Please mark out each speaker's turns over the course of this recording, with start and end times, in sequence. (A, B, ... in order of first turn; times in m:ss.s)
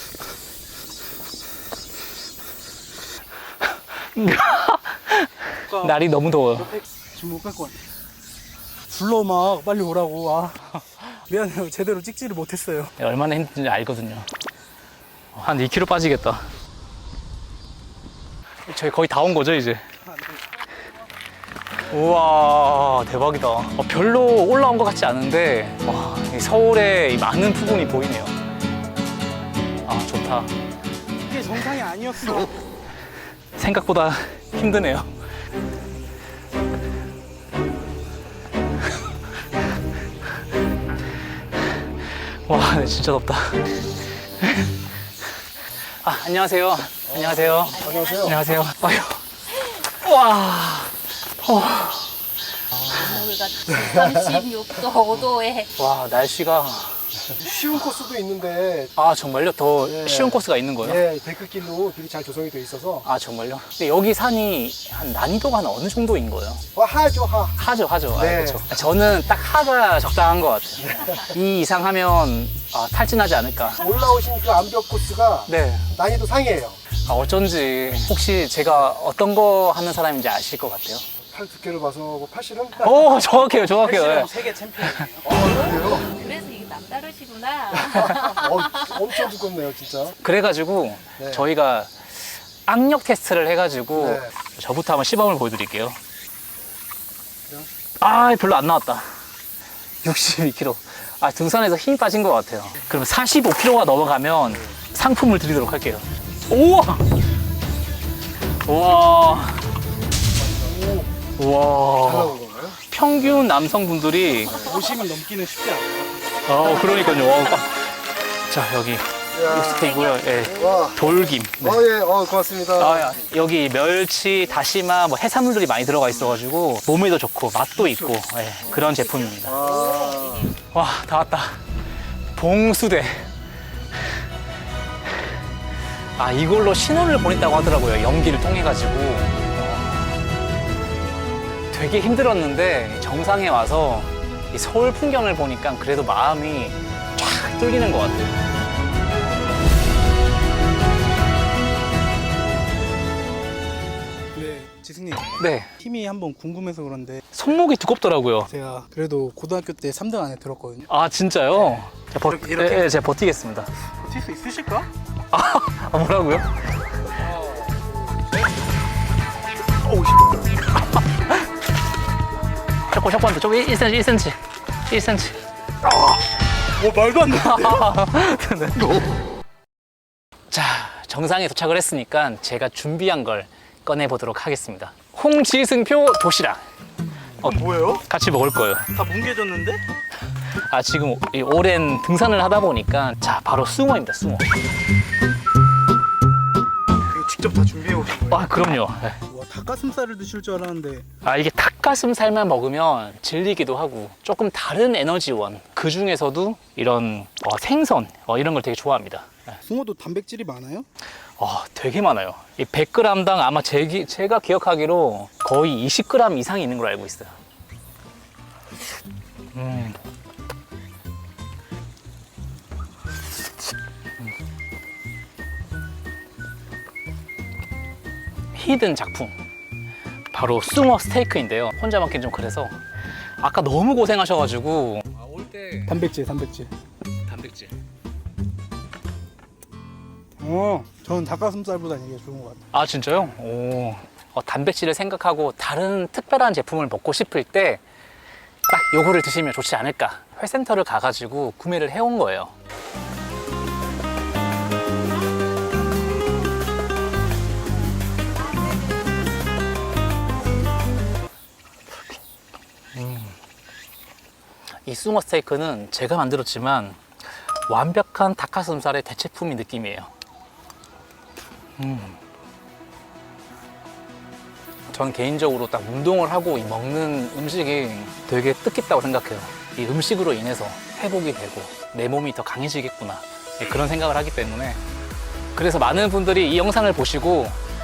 0:03.7-0:06.8 A
0:05.7-0:06.0 B
0:06.7-0:07.8 B
0:08.9-0:12.9 B
0:13.0-0:14.3 A
0:15.3-0:16.4 A
0:18.7-0:19.9 A
0:20.1-0:20.4 B
0:21.9-0:28.4 A
0:29.8-0:30.5 A
0:31.2-0:32.5 B
0:33.6-0:35.1 A
0:42.1-0:43.7 A
0:44.4-0:44.8 A
0:46.0-0:52.2 A
0:47.3-0:48.4 C
0:52.9-0:55.7 D
0:55.8-0:57.0 A
0:57.4-0:58.9 C
0:58.9-1:01.0 A
0:59.9-1:03.0 C
1:03.0-1:06.6 A
1:06.7-1:07.6 C
1:07.5-1:13.8 A
1:08.1-1:08.6 C
1:10.8-1:11.1 C
1:13.8-1:16.8 C
1:15.5-1:15.9 A
1:17.1-1:21.0 A
1:21.3-1:23.1 C
1:22.8-1:24.4 A
1:23.6-1:25.6 B
1:25.3-1:26.1 C
1:25.8-1:28.6 D
1:27.9-1:30.1 C
1:30.2-1:36.0 A
1:34.0-1:34.3 C
1:38.0-1:39.1 A
1:40.0-1:47.1 A
1:48.6-1:49.7 A
1:50.4-1:51.1 C
1:51.4-1:54.7 A
1:52.0-1:52.8 C
1:54.5-1:56.9 B
1:56.4-2:01.8 A
1:59.3-2:00.0 C
2:00.5-2:01.0 C
2:01.6-2:03.1 C
2:02.7-2:09.7 A
2:09.5-2:10.4 D
2:09.5-2:10.5 C
2:10.7-2:11.6 A
2:12.3-2:13.3 A
2:16.2-2:20.2 A
2:21.7-2:28.4 A
2:34.3-2:37.4 B
2:35.4-2:35.8 A
2:37.3-2:38.5 A
2:38.5-2:40.9 B
2:40.9-2:43.7 A
2:42.2-2:42.9 B
2:44.0-2:44.9 B
2:45.3-2:46.6 A
2:47.3-2:48.2 B
2:49.9-2:50.2 B
2:52.9-2:55.4 A
2:56.8-2:57.9 B
2:57.0-2:59.0 A
3:00.5-3:06.6 A
3:07.4-3:08.9 A
3:07.4-3:08.0 B
3:08.9-3:09.8 B
3:10.5-3:14.5 A
3:17.2-3:18.4 B
3:18.3-3:19.2 A
3:19.3-3:21.1 B
3:21.2-3:29.6 A
3:29.6-3:30.9 B
3:31.4-3:37.3 A
3:39.5-3:40.0 A
3:48.5-3:49.4 A
3:50.3-3:52.8 A
3:53.4-3:56.0 A
3:55.9-3:56.7 B
3:57.2-3:57.8 A
4:00.4-4:02.6 B
4:02.7-4:07.8 A
4:08.7-4:12.5 A
4:22.9-4:23.4 A
4:24.8-4:30.1 A
4:31.8-4:32.2 A
4:34.9-4:44.8 A
4:45.6-4:47.6 A